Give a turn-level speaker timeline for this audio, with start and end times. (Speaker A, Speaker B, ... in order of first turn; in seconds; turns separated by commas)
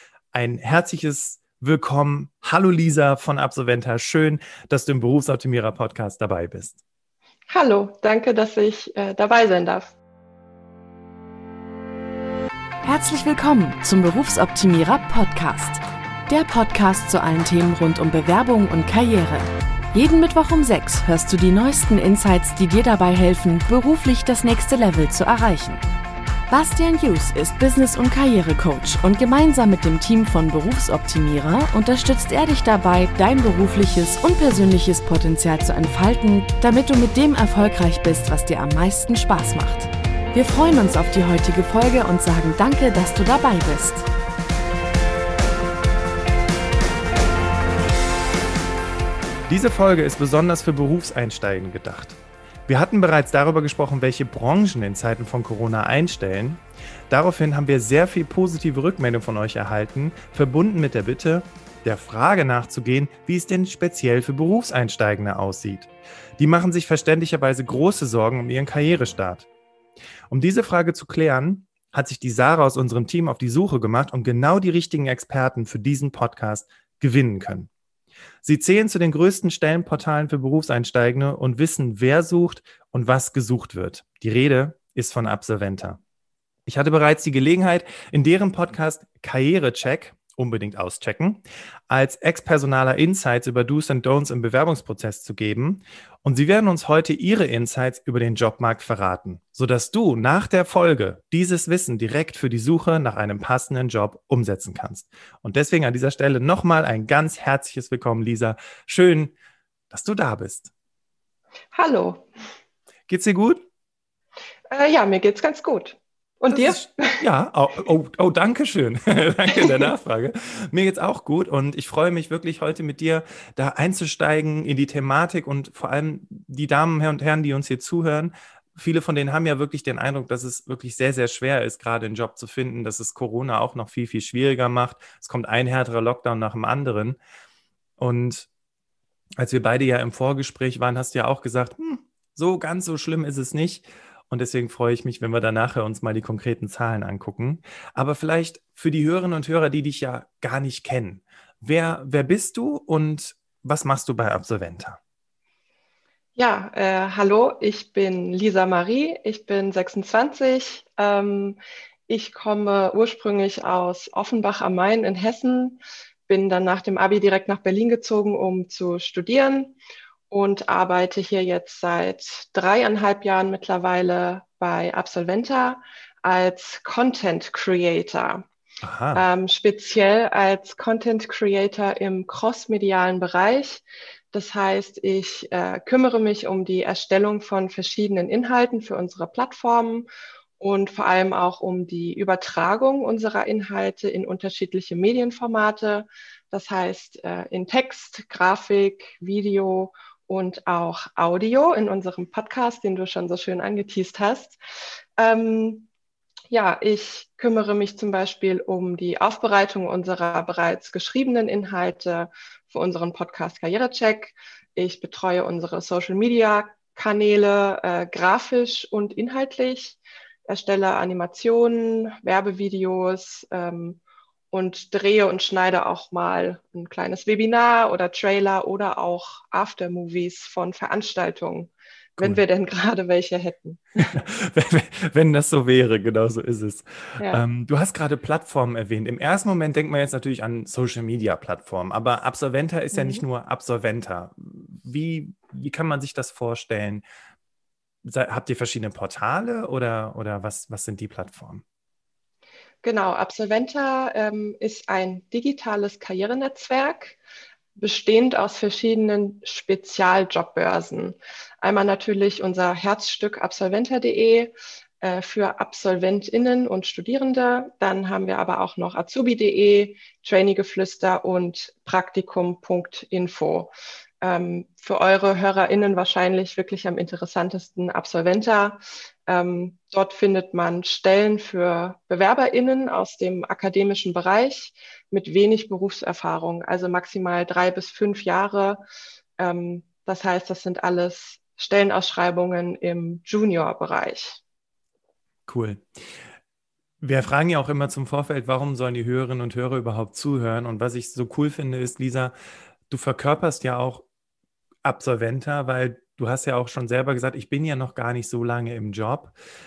Speaker A: 0.3-6.8, Speaker B: 7.5-9.9, Speaker C: 12.8-25.8, Speaker C: 26.5-44.1, Speaker A: 49.5-69.5, Speaker A: 70.3-77.7, Speaker A: 78.4-86.0, Speaker A: 86.7-109.3, Speaker A: 109.9-110.7, Speaker B: 111.7-112.3, Speaker A: 113.1-113.6, Speaker B: 114.7-117.2, Speaker A: 116.5-137.2, Speaker B: 119.5-119.8, Speaker A: 138.0-138.5, Speaker A: 139.4-155.0, Speaker B: 156.4-161.6, Speaker B: 162.1-169.8, Speaker B: 170.3-178.5, Speaker A: 178.8-179.2, Speaker B: 179.2-190.1, Speaker B: 190.6-204.6, Speaker B: 205.2-205.9, Speaker B: 206.5-224.0, Speaker B: 224.5-234.1, Speaker A: 232.2-232.4, Speaker A: 234.0-247.0, Speaker B: 242.9-243.2, Speaker A: 248.0-251.6, Speaker B: 252.8-257.2, Speaker B: 257.8-288.8, Speaker B: 289.4-294.4, Speaker A: 295.5-295.9, Speaker A: 297.0-302.3, Speaker A: 302.9-304.1, Speaker A: 304.9-309.3